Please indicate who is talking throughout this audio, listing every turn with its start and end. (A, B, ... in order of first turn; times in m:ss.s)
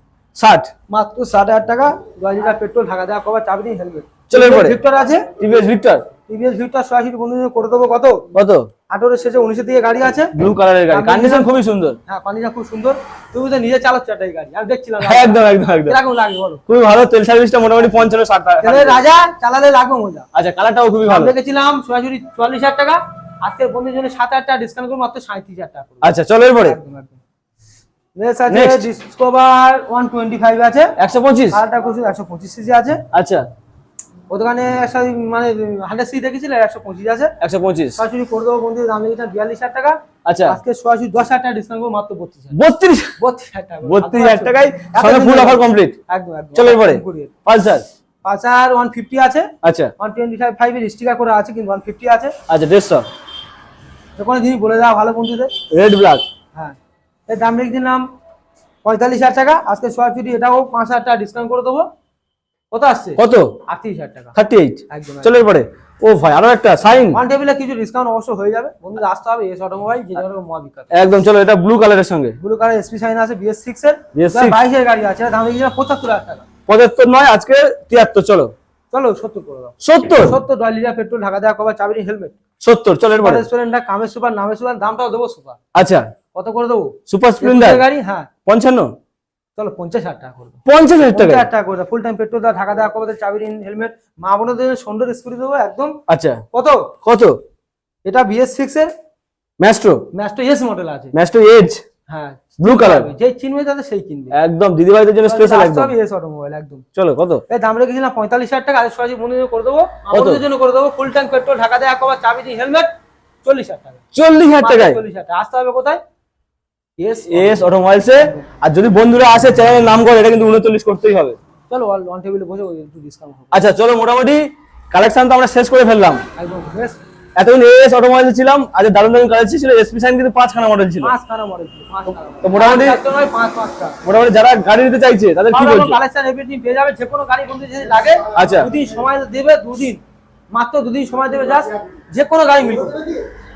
0:00.4-0:00.7 A
0:00.9-0:05.3 B
0:04.3-0:04.8 A
0:05.4-0:06.1 A
0:06.3-0:08.2 B
0:08.3-0:08.7 A
0:08.9-0:10.3 B
0:10.3-0:12.0 A
0:10.9-0:11.5 B
0:12.1-0:16.6 B
0:15.0-0:16.0 A
0:16.7-0:19.0 A
0:17.8-0:18.1 B
0:18.6-0:20.3 B
0:20.3-0:21.3 A
0:21.1-0:27.2 B
0:26.0-0:26.8 A
0:28.2-0:30.9 B
0:28.5-0:28.9 A
0:31.0-0:31.6 A
0:31.5-0:33.0 B
0:33.1-0:33.4 A
0:34.3-0:37.3 B
0:37.4-0:38.0 A
0:38.0-0:42.6 B
0:40.2-0:40.6 A
0:42.5-0:43.2 A
0:43.2-0:47.3 B
0:43.8-0:46.0 A
0:46.6-0:47.8 A
0:48.2-0:49.5 B
0:49.6-0:49.9 A
0:50.0-0:52.3 B
0:52.5-0:53.1 A
0:54.2-0:55.5 B
0:55.7-0:56.2 A
0:57.3-0:58.0 B
0:58.8-1:01.9 B
1:02.7-1:04.3 B
1:03.2-1:03.6 A
1:04.4-1:07.2 A
1:04.9-1:05.3 B
1:07.1-1:10.9 B
1:10.9-1:12.4 A
1:12.4-1:16.5 B
1:14.2-1:14.6 A
1:16.7-1:18.5 A
1:18.9-1:22.4 B
1:19.8-1:20.4 A
1:22.6-1:23.4 A
1:23.2-1:25.6 B
1:25.8-1:26.1 A
1:26.4-1:28.3 B
1:27.1-1:27.8 A
1:28.5-1:28.9 A
1:29.6-1:36.0 B
1:30.7-1:31.4 A
1:36.1-1:36.4 A
1:36.5-1:36.9 B
1:37.0-1:37.4 A
1:38.1-1:38.9 B
1:39.6-1:40.0 A
1:40.1-1:41.1 B
1:41.1-1:41.8 A
1:42.1-1:44.4 B
1:42.6-1:43.1 A
1:44.3-1:45.9 A
1:45.2-1:46.8 B
1:47.0-1:47.4 A
1:47.5-1:52.9 B
1:50.1-1:50.4 A
1:53.4-1:54.0 B
1:54.1-1:55.0 A
1:54.6-1:56.0 B
1:57.0-1:57.7 B
1:57.3-2:01.4 A
2:01.7-2:03.7 B
2:03.5-2:06.2 A
2:06.4-2:07.0 B
2:07.4-2:11.1 A
2:11.0-2:14.0 B
2:12.4-2:13.0 A
2:14.0-2:16.0 A
2:15.5-2:20.0 B
2:18.4-2:18.7 A
2:20.5-2:23.2 B